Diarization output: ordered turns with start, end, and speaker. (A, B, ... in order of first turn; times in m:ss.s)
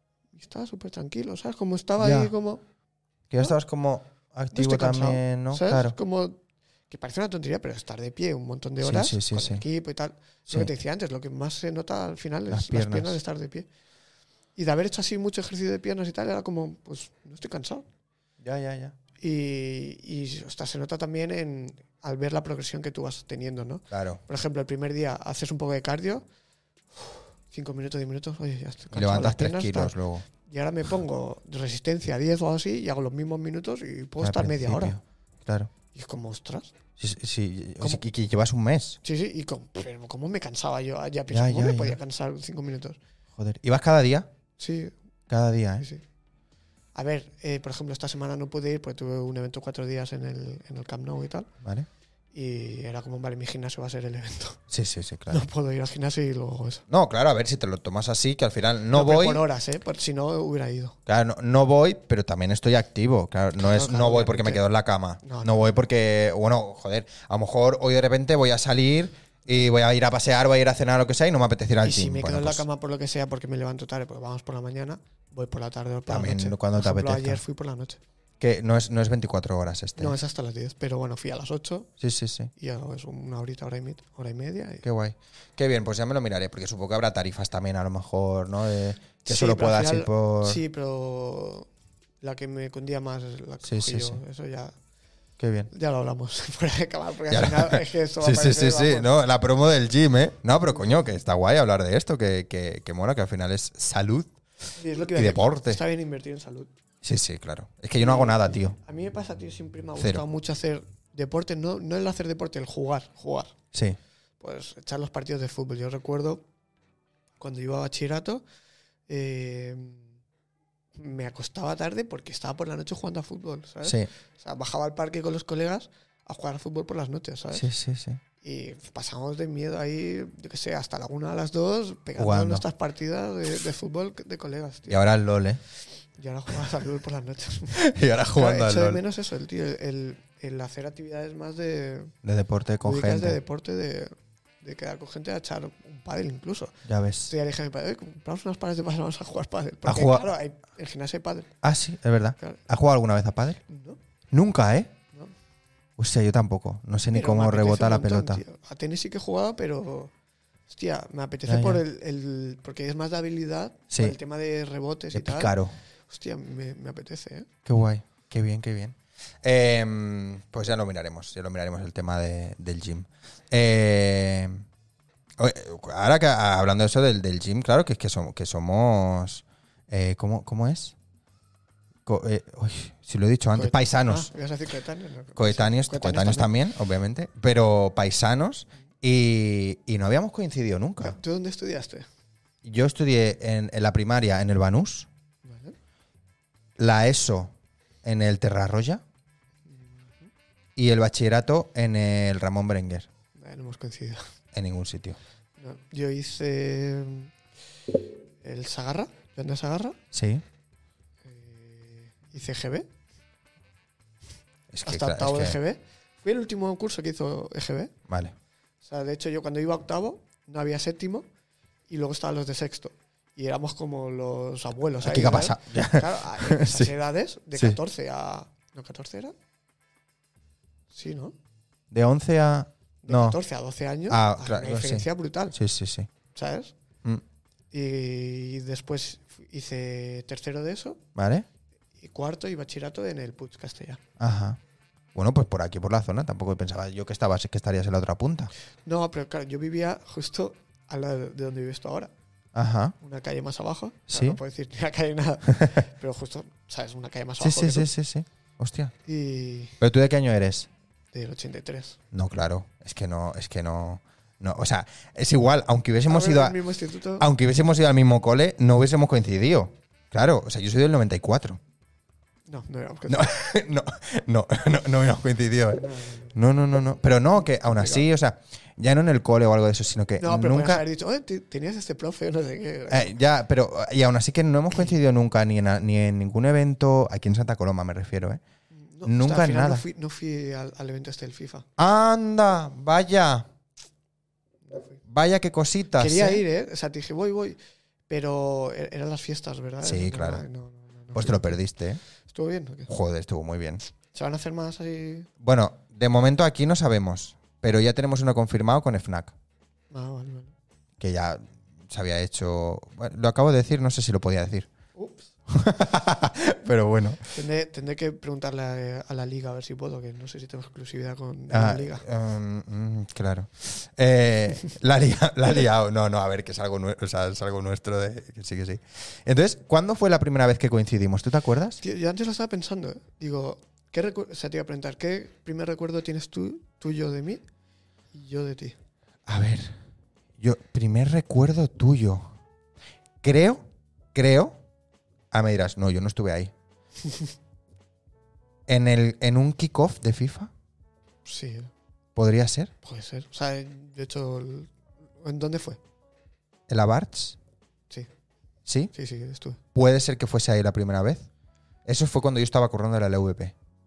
0:00.3-0:02.6 A
0:02.0-0:02.3 B
0:03.3-0:06.0 B
0:04.5-0:13.7 A
0:08.8-0:09.6 B
0:12.5-0:13.2 B
0:14.6-0:17.8 A
0:18.4-0:19.0 B
0:19.2-0:26.2 A
0:23.9-0:24.2 B
0:27.5-0:35.0 A
0:28.9-0:30.3 B
0:34.2-0:35.7 B
0:35.9-0:36.7 A
0:37.0-0:39.0 B
0:39.0-0:43.0 A
0:41.3-0:42.0 B
0:43.4-0:44.3 B
0:44.6-0:44.9 A
0:45.3-0:45.8 B
0:46.9-0:51.5 A
0:52.3-0:54.6 A
0:54.7-0:55.4 B
0:55.3-0:56.8 A
0:56.9-0:59.4 B
0:58.9-1:01.0 A
1:01.1-1:12.6 B
1:03.6-1:04.6 A
1:05.2-1:05.8 A
1:11.8-1:18.0 A
1:16.1-1:17.4 B
1:18.4-1:20.1 B
1:20.0-1:21.9 A
1:22.0-1:22.5 B
1:22.6-1:24.8 A
1:24.8-1:30.6 B
1:29.2-1:31.7 A
1:32.2-1:34.7 A
1:33.6-1:34.2 B
1:35.4-1:35.7 B
1:35.7-1:39.1 A
1:37.3-1:44.4 B
1:44.7-1:46.7 A
1:45.1-1:45.8 B
1:47.0-1:48.8 B
1:48.0-1:53.6 A
1:50.0-1:50.2 B
1:53.7-1:54.0 B
1:54.4-1:56.4 A
1:57.4-1:58.4 A
1:59.1-2:00.1 A
2:00.9-2:07.7 A
2:03.8-2:04.1 B
2:07.5-2:08.2 B
2:08.4-2:15.0 A
2:12.2-2:12.6 B
2:14.9-2:15.6 B
2:16.2-2:17.8 A
2:17.7-2:19.0 B
2:18.3-2:22.1 A
2:22.2-2:23.4 B
2:22.8-2:31.5 A
2:26.8-2:27.3 B
2:29.8-2:30.3 B
2:31.6-2:33.6 B
2:33.7-2:34.0 A
2:34.3-2:34.9 B
2:36.0-2:38.4 B
2:37.1-2:40.1 A
2:40.7-2:45.6 A
2:41.4-2:41.8 B
2:43.9-2:44.2 B
2:45.1-2:45.8 B
2:46.1-2:47.5 A
2:47.6-2:54.6 B
2:55.4-3:00.9 B
3:02.0-3:04.3 B
3:03.5-3:06.5 A
3:05.4-3:11.2 B
3:11.0-3:12.1 A
3:12.6-3:15.1 B
3:15.4-3:15.8 A
3:16.8-3:19.0 B
3:19.6-3:20.3 A
3:20.8-3:23.1 B
3:23.3-3:24.2 A
3:24.5-3:25.2 B
3:25.6-3:27.3 A
3:28.4-3:30.0 A
3:30.1-3:30.4 B
3:31.2-3:32.9 A
3:34.7-3:35.6 B
3:34.8-3:37.9 A
3:38.1-3:38.3 B
3:38.8-3:41.3 A
3:41.9-3:49.3 A
3:45.0-3:46.9 B
3:50.9-3:51.3 A
3:51.9-3:53.4 B
3:53.0-3:55.6 A
3:54.1-3:56.1 B
3:56.3-3:56.7 A
3:57.7-4:01.0 A
4:01.1-4:01.4 B
4:02.0-4:04.0 A
4:04.2-4:04.6 B
4:05.1-4:08.5 B
4:08.8-4:12.1 A
4:12.6-4:12.9 B
4:13.0-4:17.9 A
4:14.1-4:14.4 B
4:15.5-4:15.8 B
4:17.4-4:18.9 B
4:19.0-4:19.8 A
4:19.8-4:20.7 B
4:21.1-4:22.0 A
4:22.1-4:26.6 B
4:26.1-4:27.3 A
4:27.2-4:31.6 B
4:32.5-4:33.3 A
4:33.1-4:40.8 B
4:35.8-4:36.3 A
4:37.3-4:38.1 A
4:40.2-4:43.1 A
4:42.9-4:48.4 B
4:48.8-4:51.7 A
4:49.0-4:49.8 B
4:51.8-4:53.5 B
4:54.7-4:55.0 A
4:55.0-4:56.4 B
4:56.0-4:57.6 A
4:58.1-5:01.6 A
4:59.8-5:00.4 B
5:01.1-5:02.0 B
5:02.2-5:02.9 A
5:02.9-5:03.8 B
5:04.1-5:05.3 A
5:05.4-5:09.3 B
5:09.9-5:10.5 A
5:11.0-5:14.7 B
5:14.9-5:15.3 A
5:15.5-5:17.4 B
5:17.3-5:22.0 A
5:21.5-5:31.8 B
5:31.8-5:37.4 A
5:38.1-5:38.8 A
5:39.3-5:39.7 B
5:40.4-5:42.4 B
5:43.2-5:44.6 B
5:45.3-5:46.5 B
5:47.0-5:47.3 A
5:48.7-5:50.5 B
5:51.2-5:51.7 A
5:52.1-5:52.7 B
5:52.8-5:55.8 A
5:56.7-5:57.4 B
5:58.6-5:58.9 B
5:58.9-5:59.6 A
5:59.7-6:01.3 B
6:01.8-6:03.5 B